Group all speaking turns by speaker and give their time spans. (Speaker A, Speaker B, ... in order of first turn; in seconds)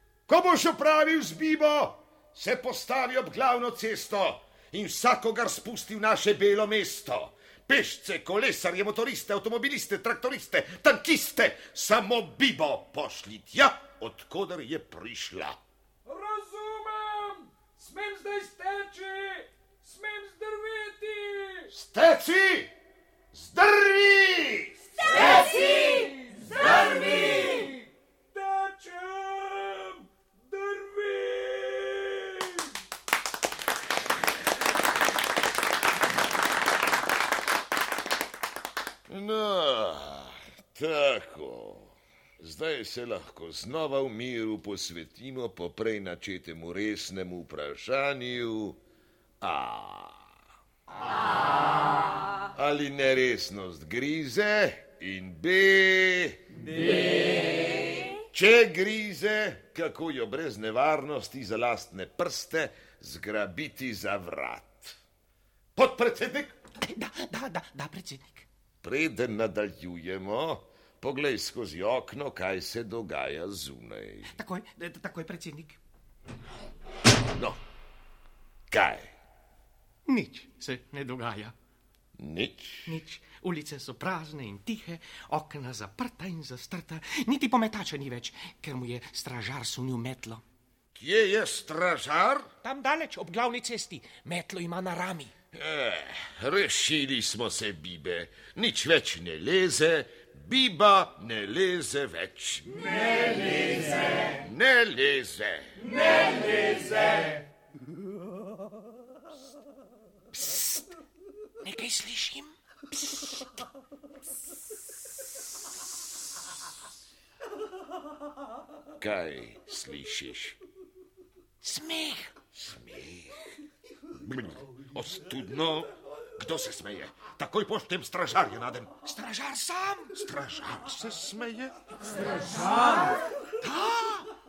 Speaker A: 0.3-15.6, 21.7-22.7, 23.3-24.8, 39.1-48.8, 49.4-50.3, 52.5-56.5, 58.3-65.0, 65.8-66.5, 68.8-74.3, 77.3-77.6, 78.7-79.1, 82.2-82.9, 90.9-92.5, 95.5-103.0, 104.2-105.9, 110.3-110.8, 119.0-120.6, 122.5-123.4, 124.2-128.9, 130.2-131.8
Speaker B: 16.1-21.7, 25.8-27.7, 28.3-32.6
Speaker C: 66.8-68.5, 74.3-75.8, 80.1-81.5, 82.9-90.4, 92.6-95.3, 111.6-113.3, 121.6-122.3, 129.1-130.3, 133.6-134.2